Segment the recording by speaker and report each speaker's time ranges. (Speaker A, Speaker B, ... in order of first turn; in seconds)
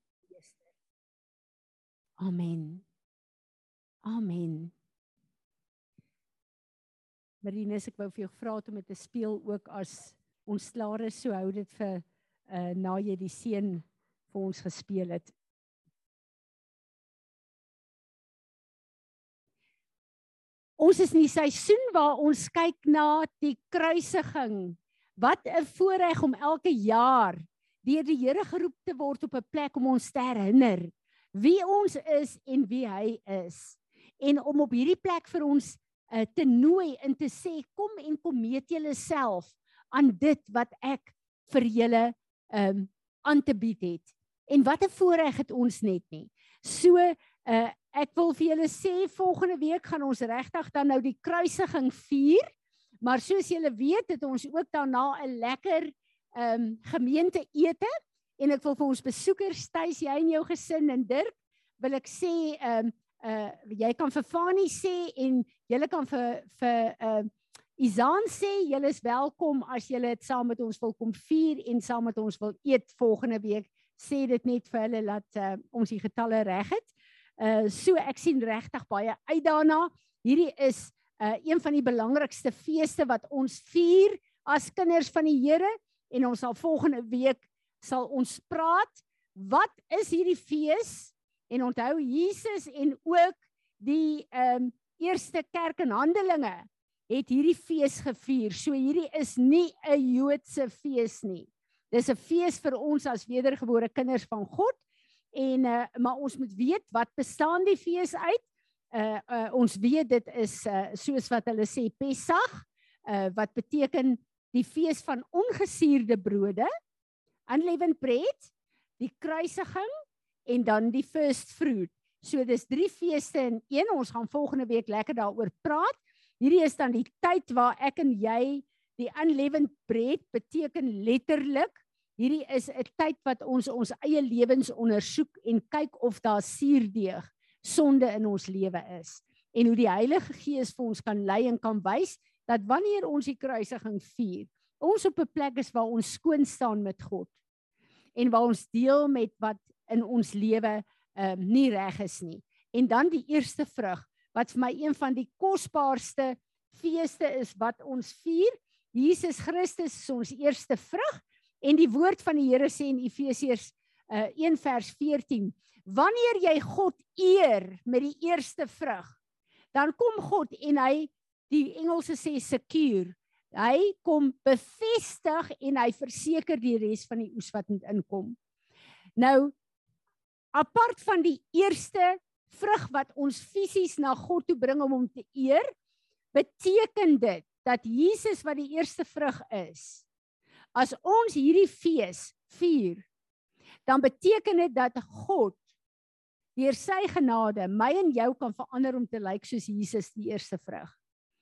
Speaker A: 0.3-0.7, 2.2-2.8, 4.0-4.7, 7.4-15.3, 20.8-52.5, 53.0-104.8, 105.3-108.4, 108.9-116.7, 117.5-119.9, 120.5-147.3, 148.2-169.1, 169.7-178.3, 179.2-179.5, 180.5-185.7, 186.3-190.0, 190.7-193.1, 193.8-195.6, 196.6-200.9